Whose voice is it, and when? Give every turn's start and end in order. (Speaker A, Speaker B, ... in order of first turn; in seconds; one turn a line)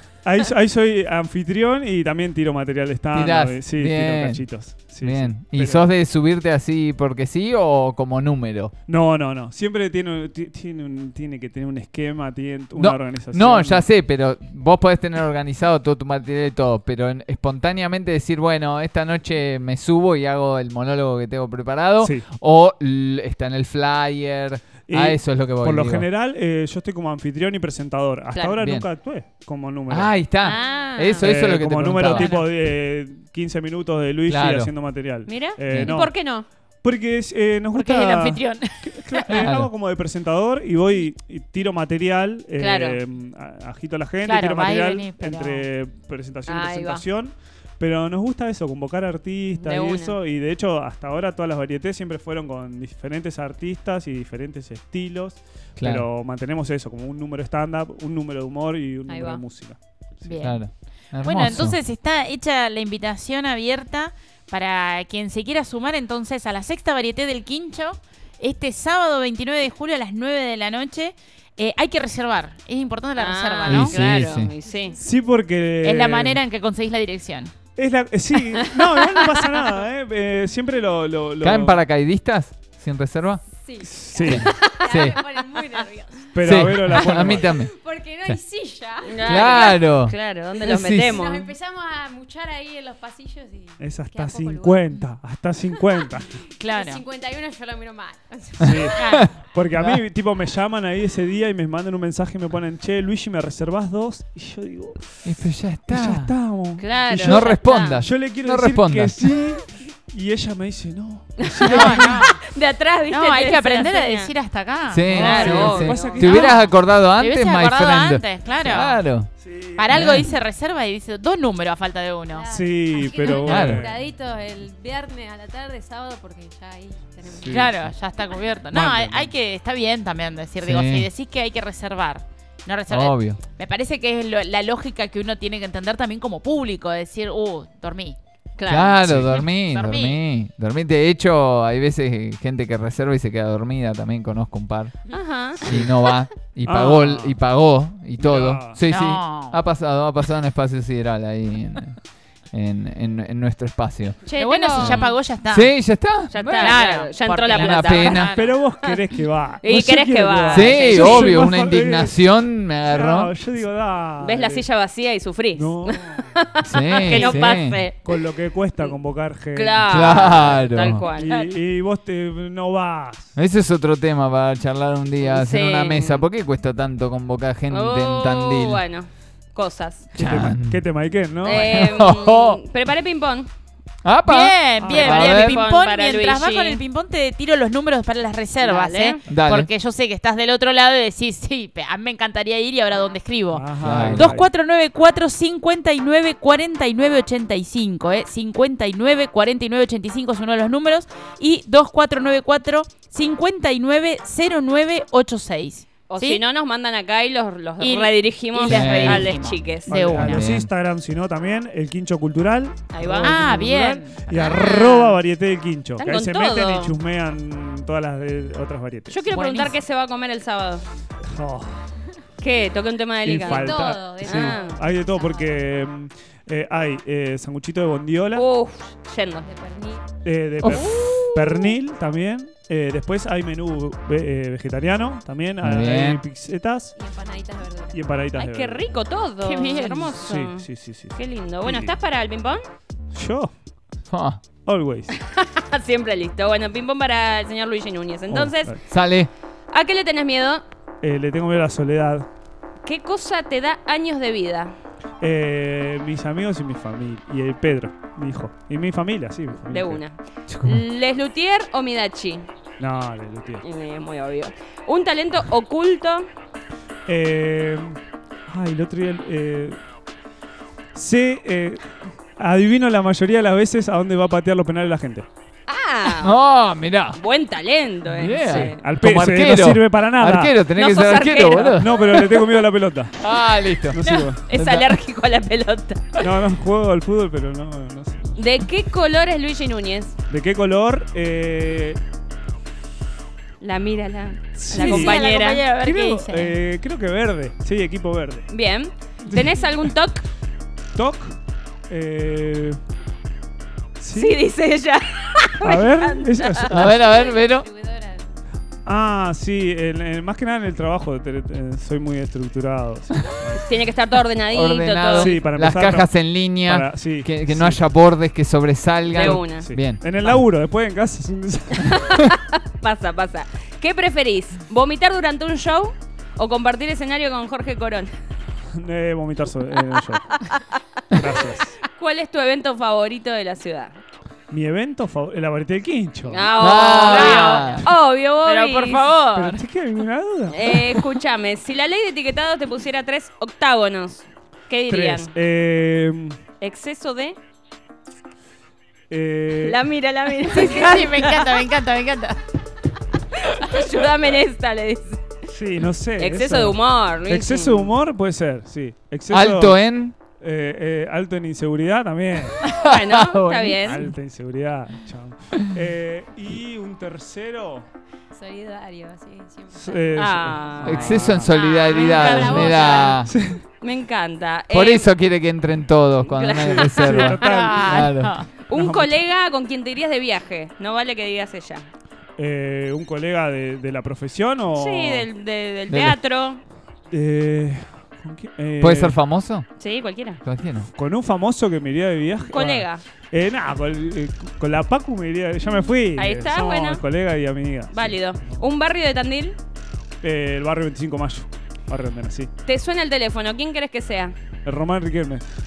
Speaker A: 0.2-5.9
Speaker B: 3.1-8.7
Speaker A: 8.9-13.8
Speaker B: 12.8-26.1
Speaker A: 22.0-22.3
Speaker A: 24.9-30.2
Speaker C: 28.3-28.6
Speaker B: 28.6-28.9
Speaker B: 29.9-32.4
Speaker C: 30.4-31.3
Speaker A: 31.2-60.4
Speaker D: 32.2-32.5
Speaker B: 34.3-34.7
Speaker C: 35.3-36.5
Speaker D: 37.7-39.3
Speaker B: 39.3-39.7
Speaker C: 42.6-43.0
Speaker D: 44.2-45.7
Speaker C: 46.5-47.0
Speaker C: 49.6-50.2
Speaker B: 55.8-56.1
Speaker C: 59.1-59.4
Speaker D: 60.2-60.7
Speaker B: 60.4-61.8
Speaker D: 61.2-74.0
Speaker C: 73.2-75.0
Speaker B: 73.7-74.5
Speaker E: 74.7-75.0
Speaker A: 75.0-76.4
Speaker D: 75.8-77.5
Speaker A: 77.8-81.8
Speaker C: 79.0-79.5
Speaker B: 81.4-83.5
Speaker E: 83.6-89.8
Speaker A: 83.8-84.5
Speaker B: 84.2-85.2
Speaker A: 86.3-87.5
Speaker B: 86.4-87.7
Speaker C: 89.0-91.5
Speaker B: 89.3-91.2
Speaker E: 91.0-95.0
Speaker A: 93.8-96.3
Speaker E: 95.8-99.3
Speaker D: 96.6-97.0
Speaker A: 98.6-105.3
Speaker B: 98.7-99.2
Speaker D: 99.0-99.3
Speaker B: 105.2-106.3
Speaker A: 105.9-112.2
Speaker C: 106.8-108.0
Speaker B: 107.1-109.3
Speaker C: 111.4-114.3
Speaker D: 111.6-112.4
Speaker D: 113.1-119.1
Speaker B: 114.9-119.3
Speaker C: 115.1-116.4
Speaker A: 115.1-116.7
Speaker A: 119.4-120.2
Speaker D: 119.8-122.5
Speaker B: 119.9-120.3
Speaker E: 122.3-127.7
Speaker A: 122.5-124.0
Speaker B: 123.4-123.9
Speaker A: 127.3-127.7
Speaker D: 127.5-138.2
Speaker A: 128.7-129.3
Speaker B: 130.6-131.1
Speaker B: 132.9-133.4
Speaker C: 138.6-139.4
Speaker B: 138.7-144.9
Speaker A: 139.0-139.4
Speaker D: 139.5-140.2
Speaker C: 145.1-145.6
Speaker B: 145.5-152.0
Speaker A: 146.7-147.4
Speaker A: 148.2-148.8
Speaker D: 148.9-149.6
Speaker B: 152.5-154.2
Speaker C: 154.3-155.1
Speaker D: 154.4-155.7
Speaker B: 154.8-156.8
Speaker C: 156.3-158.9
Speaker D: 156.6-158.5
Speaker B: 157.5-158.3
Speaker A: 158.2-162.2
Speaker C: 159.6-161.5
Speaker B: 160.5-163.3
Speaker A: 162.9-164.7
Speaker C: 164.2-168.2
Speaker A: 165.5-166.4
Speaker B: 166.6-167.8
Speaker A: 167.1-167.5
Speaker A: 168.1-173.4
Speaker C: 169.5-171.5
Speaker B: 169.8-171.1
Speaker B: 173.4-178.8
Speaker C: 175.2-176.2
Speaker C: 177.7-180.1
Speaker A: 180.1-182.0
Speaker B: 180.2-180.8
Speaker C: 181.4-183.5
Speaker B: 181.5-182.6
Speaker B: 184.0-185.6
Speaker D: 184.2-206.4
Speaker A: 184.8-185.2
Speaker C: 185.0-186.8
Speaker C: 188.6-189.2
Speaker B: 189.3-189.7
Speaker A: 193.5-194.5
Speaker B: 193.8-194.4
Speaker C: 206.1-209.9
Speaker D: 207.8-210.5
Speaker B: 208.7-209.4
Speaker A: 209.9-219.2
Speaker B: 210.0-210.7
Speaker C: 212.9-213.4
Speaker D: 213.2-214.5
Speaker C: 214.3-215.2
Speaker C: 216.0-216.9
Speaker C: 219.1-220.8
Speaker D: 219.3-219.8
Speaker A: 221.2-221.8
Speaker C: 222.4-224.8
Speaker A: 223.2-228.5
Speaker E: 223.4-225.7
Speaker C: 228.3-229.5
Speaker E: 229.4-230.1
Speaker A: 230.2-236.9
Speaker B: 230.6-231.0
Speaker C: 230.6-231.7
Speaker B: 235.6-236.2
Speaker E: 237.0-238.0
Speaker A: 237.9-238.9
Speaker C: 238.4-242.6
Speaker D: 239.4-240.2
Speaker A: 240.1-241.9
Speaker A: 243.1-243.5
Speaker B: 244.1-244.4
Speaker A: 244.6-245.1
Speaker C: 245.2-248.8
Speaker A: 248.3-248.8
Speaker B: 248.9-249.3
Speaker C: 249.7-250.6
Speaker A: 251.0-252.3
Speaker C: 252.8-254.7
Speaker A: 255.2-260.0
Speaker C: 259.6-262.5
Speaker A: 262.8-263.6
Speaker C: 263.6-266.3
Speaker A: 267.1-269.8
Speaker A: 270.9-275.3
Speaker C: 275.7-276.4
Speaker B: 276.2-277.2
Speaker C: 277.1-278.8
Speaker B: 278.1-282.2
Speaker A: 278.4-280.5
Speaker C: 280.8-282.3
Speaker A: 281.7-283.2
Speaker B: 283.2-284.9
Speaker A: 283.8-284.4
Speaker C: 284.1-286.3
Speaker A: 286.2-288.4
Speaker C: 288.4-290.1
Speaker A: 290.3-292.0
Speaker C: 293.6-295.7
Speaker A: 294.6-298.5
Speaker D: 294.7-296.6
Speaker C: 298.5-300.2
Speaker A: 299.3-299.7
Speaker A: 300.9-301.4
Speaker A: 301.9-302.8
Speaker A: 304.0-304.4
Speaker C: 304.1-306.7
Speaker A: 305.6-306.9
Speaker B: 306.7-307.7
Speaker E: 306.8-308.4
Speaker A: 308.9-313.7
Speaker C: 313.6-315.4
Speaker B: 314.5-320.4
Speaker A: 315.1-317.8
Speaker C: 319.1-319.7
Speaker A: 319.1-322.3
Speaker C: 322.1-328.1
Speaker A: 328.7-330.4
Speaker C: 330.3-334.0
Speaker A: 331.1-331.8
Speaker A: 334.5-336.5
Speaker C: 336.3-339.6
Speaker B: 336.6-337.9
Speaker D: 336.8-337.8
Speaker D: 338.4-339.6
Speaker A: 339.3-341.0
Speaker C: 340.5-345.3
Speaker A: 344.9-346.4
Speaker C: 346.6-347.4
Speaker A: 349.1-349.8
Speaker C: 349.6-351.6
Speaker D: 350.5-352.4
Speaker C: 353.4-355.2
Speaker A: 355.5-359.8
Speaker C: 356.2-357.9
Speaker B: 359.3-360.1
Speaker A: 360.4-362.7
Speaker B: 362.7-363.9
Speaker C: 362.7-364.1
Speaker A: 363.8-367.9
Speaker E: 368.3-370.3
Speaker A: 369.7-371.5
Speaker C: 370.1-375.1
Speaker B: 370.8-373.3
Speaker E: 371.9-373.3
Speaker A: 373.2-373.6
Speaker B: 374.7-378.3
Speaker C: 376.2-377.4
Speaker A: 376.6-378.1
Speaker D: 377.4-378.5
Speaker C: 378.7-381.9
Speaker A: 378.7-379.2
Speaker A: 382.4-385.3
Speaker C: 384.8-386.6
Speaker B: 385.9-386.2
Speaker A: 387.1-389.2
Speaker B: 388.8-389.7
Speaker C: 389.8-390.4
Speaker B: 390.4-390.9
Speaker A: 391.0-398.6
Speaker C: 392.5-393.0
Speaker C: 396.1-397.0
Speaker C: 397.9-399.6
Speaker A: 400.2-402.5
Speaker C: 402.6-404.4
Speaker A: 404.6-405.4